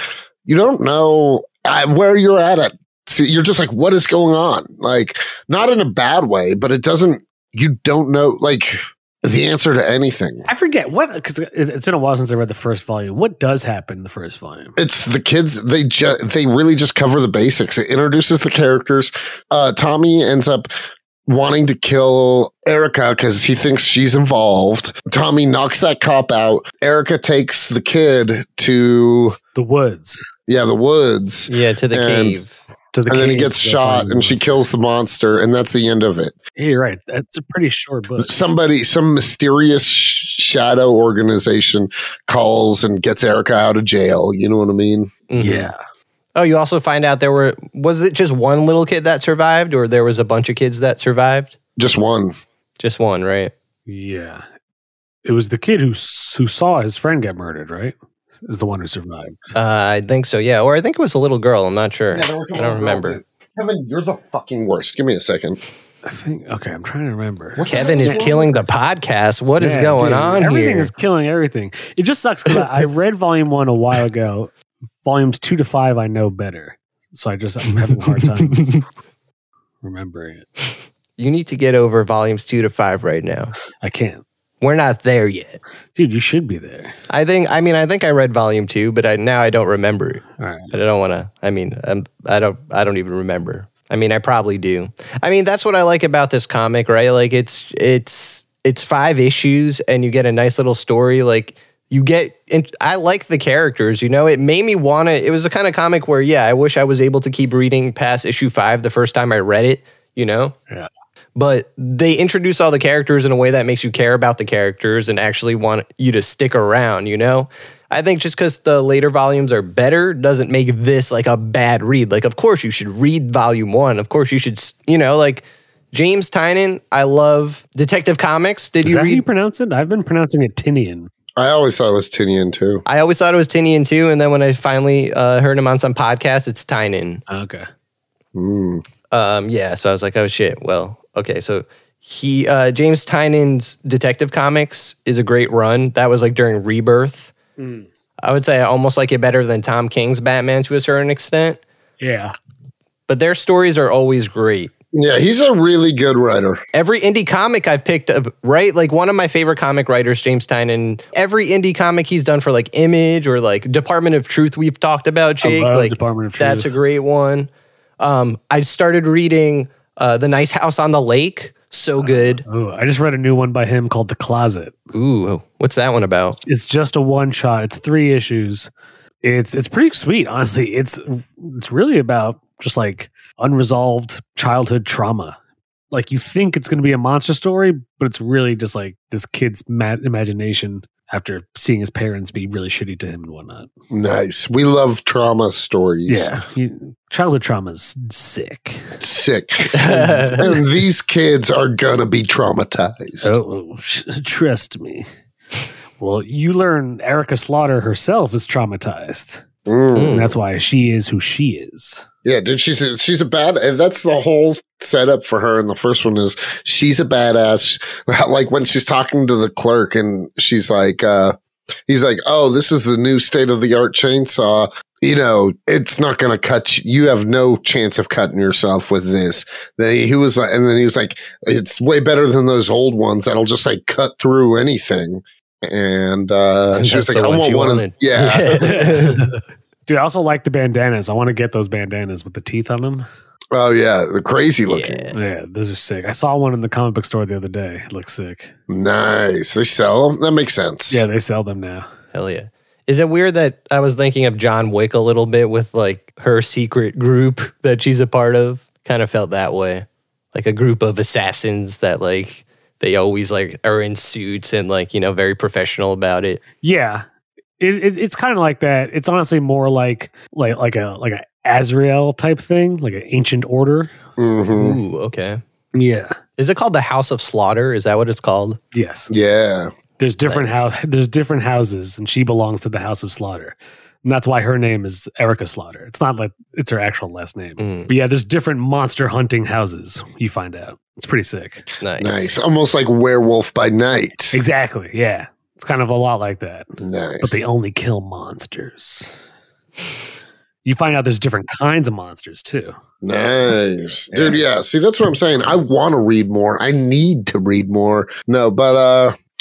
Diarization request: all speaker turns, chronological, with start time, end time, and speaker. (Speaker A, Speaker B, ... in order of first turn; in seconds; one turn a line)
Speaker A: 0.5-10.5
Speaker B: 10.5-14.8
Speaker A: 14.8-20.7
Speaker A: 21.3-29.4
Speaker B: 29.6-30.3
Speaker A: 30.5-32.4
Speaker C: 31.5-32.6
Speaker B: 32.9-34.5
Speaker A: 33.1-36.4
Speaker B: 36.6-38.4
Speaker A: 38.2-45.1
Speaker C: 45.3-45.7
Speaker B: 45.4-45.8
Speaker C: 46.4-51.6
Speaker A: 51.8-52.3
Speaker C: 52.8-53.5
Speaker B: 53.9-54.4
Speaker B: 55.2-58.0
Speaker B: 58.5-59.4
Speaker C: 59.5-63.2
Speaker A: 62.1-65.6
Speaker B: 66.0-68.3
Speaker A: 67.6-68.7
Speaker C: 67.7-70.9
Speaker B: 69.6-74.5
Speaker B: 75.0-78.8
Speaker C: 78.5-78.8
Speaker B: 79.8-80.5
Speaker C: 81.2-83.6
Speaker B: 83.8-84.2
Speaker C: 84.6-85.6
Speaker B: 86.0-87.0
Speaker C: 87.1-110.6
Speaker B: 90.4-90.7
Speaker C: 111.4-129.2
Speaker B: 128.8-131.1
Speaker A: 131.4-132.8
Speaker C: 132.9-137.2
Speaker B: 137.3-137.7
Speaker A: 138.3-138.8
Speaker C: 139.1-147.3
Speaker B: 147.6-147.9
Speaker C: 148.2-151.6
Speaker B: 152.0-152.3
Speaker C: 153.1-154.7
Speaker A: 154.9-156.6
Speaker C: 156.7-172.4
Speaker B: 165.4-166.8
Speaker B: 172.0-174.8
Speaker C: 174.9-176.4
Speaker B: 176.4-178.7
Speaker B: 179.2-185.4
Speaker B: 185.9-193.7
Speaker A: 193.9-196.3
Speaker B: 196.1-198.9
Speaker A: 199.0-203.3
Speaker C: 199.7-200.5
Speaker B: 199.9-200.6
Speaker B: 203.2-205.1
Speaker B: 206.0-209.4
Speaker A: 209.7-210.3
Speaker C: 210.0-210.3
Speaker B: 210.1-212.1
Speaker A: 212.2-221.3
Speaker A: 221.9-238.8
Speaker C: 236.8-239.3
Speaker B: 238.6-243.1
Speaker A: 243.5-245.0
Speaker C: 244.7-245.2
Speaker B: 245.1-248.5
Speaker A: 248.7-251.1
Speaker B: 250.9-251.9
Speaker C: 252.1-266.4
Speaker B: 266.6-267.1
Speaker B: 267.6-273.9
Speaker A: 274.2-274.8
Speaker C: 274.5-275.4
Speaker B: 275.8-276.2
Speaker C: 276.4-278.6
Speaker B: 278.7-279.1
Speaker A: 279.1-279.7
Speaker B: 280.0-291.7
Speaker C: 280.3-280.7
Speaker C: 287.6-287.9
Speaker C: 291.8-292.5
Speaker A: 292.0-294.4
Speaker B: 294.3-299.2
Speaker A: 296.8-297.4
Speaker B: 300.6-302.8
Speaker A: 303.0-309.1
Speaker B: 304.1-304.4